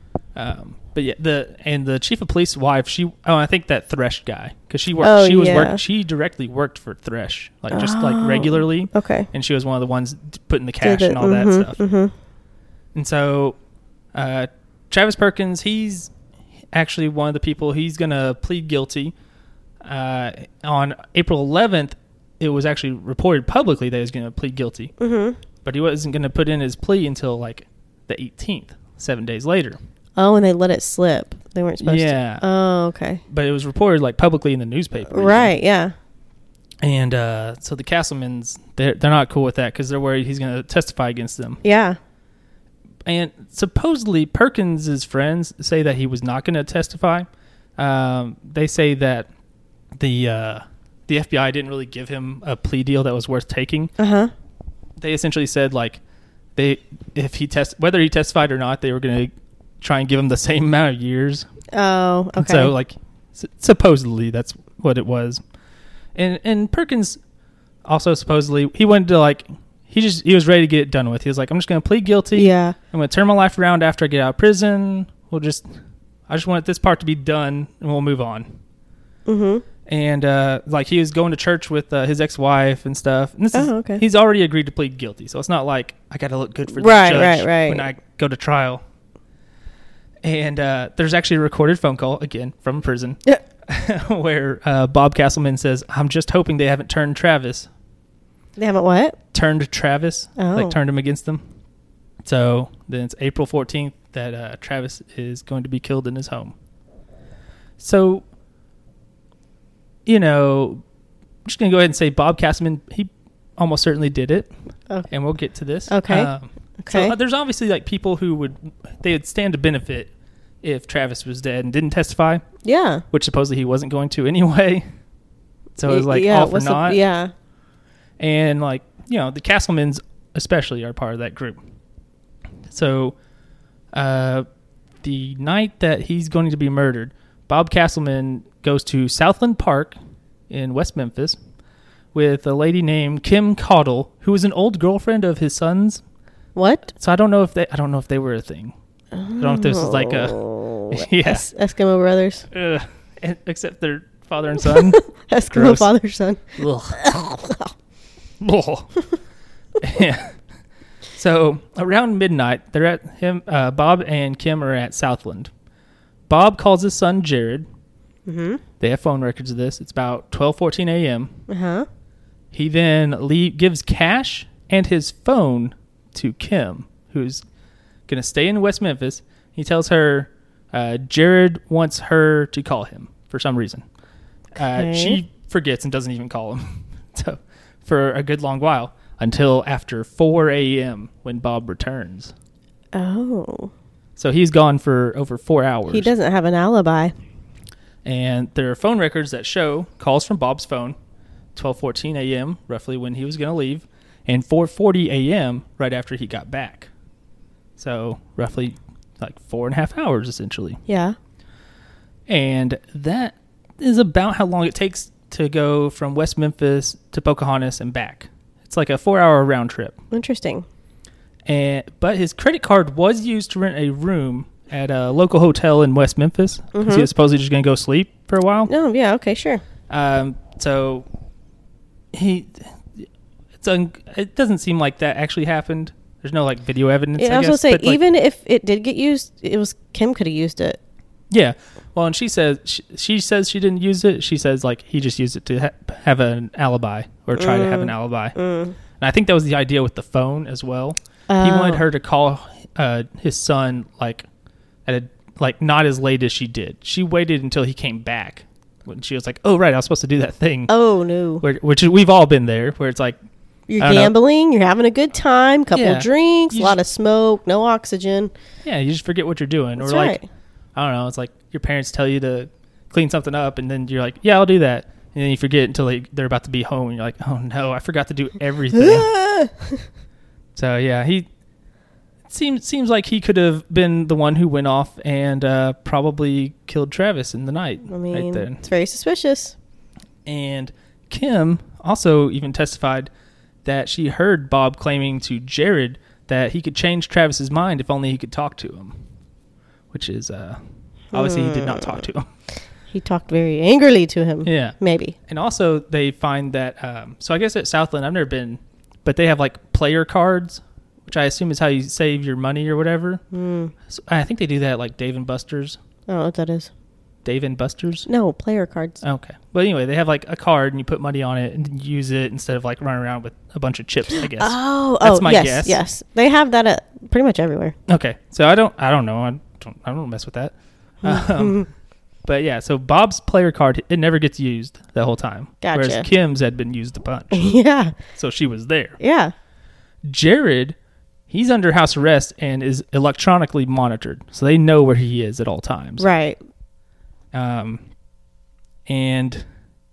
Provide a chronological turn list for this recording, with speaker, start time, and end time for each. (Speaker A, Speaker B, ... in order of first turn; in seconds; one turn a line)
Speaker A: 0.3-11.8
Speaker B: 5.0-5.8
Speaker B: 7.7-9.3
Speaker B: 10.8-12.1
Speaker A: 12.9-13.6
Speaker A: 14.1-16.1
Speaker A: 16.7-19.1
Speaker A: 19.8-24.9
Speaker B: 25.0-25.4
Speaker A: 25.6-29.8
Speaker B: 30.2-33.2
Speaker A: 31.8-32.4
Speaker A: 33.3-35.5
Speaker B: 35.1-35.9
Speaker A: 36.8-41.6
Speaker B: 41.6-42.0
Speaker A: 43.1-49.3
Speaker A: 50.0-53.9
Speaker B: 54.0-54.3
Speaker A: 55.0-56.0
Speaker A: 56.6-61.5
Speaker B: 61.7-62.7
Speaker A: 62.4-65.4
Speaker A: 66.2-67.2
Speaker A: 67.9-75.7
Speaker B: 72.3-72.8
Speaker A: 76.3-78.5
Speaker B: 79.3-79.6
Speaker A: 79.9-88.8
Speaker B: 83.5-84.0
Speaker B: 86.7-87.9
Speaker A: 90.2-97.7
Speaker B: 98.6-99.2
Speaker A: 99.3-101.4
Speaker B: 100.4-100.8
Speaker A: 102.2-106.5
Speaker A: 107.8-108.2
Speaker A: 110.1-110.8
Speaker A: 111.5-114.5
Speaker A: 115.1-120.1
Speaker B: 115.9-117.1
Speaker A: 120.6-122.4
Speaker B: 122.6-123.0
Speaker A: 123.1-124.8
Speaker A: 125.8-127.0
Speaker B: 125.9-127.3
Speaker A: 128.2-131.6
Speaker A: 132.7-133.2
Speaker A: 133.9-134.4
Speaker A: 135.0-140.0
Speaker A: 140.5-141.4
Speaker A: 142.1-146.0
Speaker B: 146.6-146.9
Speaker A: 147.0-148.7
Speaker B: 149.1-152.5
Speaker A: 149.4-151.5
Speaker A: 152.5-155.0
Speaker B: 154.6-157.7
Speaker A: 155.5-155.9
Speaker A: 156.6-157.1
Speaker A: 158.4-158.9
Speaker A: 159.8-160.4
Speaker A: 161.1-165.5
Speaker A: 166.3-167.7
Speaker B: 168.3-168.6
Speaker A: 168.8-171.3
Speaker B: 171.5-171.9
Speaker A: 172.5-177.4
Speaker A: 178.1-183.8
Speaker A: 184.6-192.3
Speaker B: 184.6-185.2
Speaker B: 192.9-193.7
Speaker A: 194.2-196.1
Speaker B: 195.9-197.1
Speaker A: 198.1-200.9
Speaker A: 201.6-206.9
Speaker A: 207.8-210.8
Speaker B: 210.9-211.2
Speaker A: 212.3-220.0
Speaker B: 220.1-220.7
Speaker A: 221.5-228.7
Speaker B: 226.7-227.1
Speaker B: 228.7-229.6
Speaker A: 229.9-231.1
Speaker A: 232.1-238.0
Speaker B: 237.2-240.8
Speaker A: 241.3-248.3
Speaker B: 247.4-248.8
Speaker A: 249.0-254.3
Speaker B: 251.3-251.8
Speaker A: 254.9-260.7
Speaker B: 260.7-261.4
Speaker A: 261.4-263.2
Speaker B: 263.7-268.3
Speaker A: 263.8-264.1
Speaker A: 265.7-266.8
Speaker A: 268.6-270.2
Speaker B: 269.8-270.3
Speaker A: 270.8-279.1
Speaker B: 278.7-279.8
Speaker A: 280.6-281.3
Speaker A: 282.3-288.6
Speaker B: 287.9-289.6
Speaker A: 290.2-293.1
Speaker A: 293.6-299.0
Speaker A: 299.9-300.6
Speaker B: 301.1-302.1
Speaker A: 301.1-302.3
Speaker B: 302.9-305.2
Speaker A: 304.4-313.2
Speaker B: 313.3-313.7
Speaker A: 313.9-315.8
Speaker B: 316.1-316.7
Speaker A: 317.2-318.1
Speaker B: 318.1-319.0
Speaker A: 319.0-325.8
Speaker B: 324.1-327.8
Speaker A: 327.9-331.6
Speaker B: 331.0-331.7
Speaker A: 332.2-337.5
Speaker B: 335.6-336.1
Speaker B: 337.3-338.0
Speaker A: 338.1-339.0
Speaker B: 339.0-339.3
Speaker A: 340.1-340.8
Speaker A: 341.3-346.1
Speaker B: 346.0-346.4
Speaker A: 347.3-347.8
Speaker A: 348.9-349.4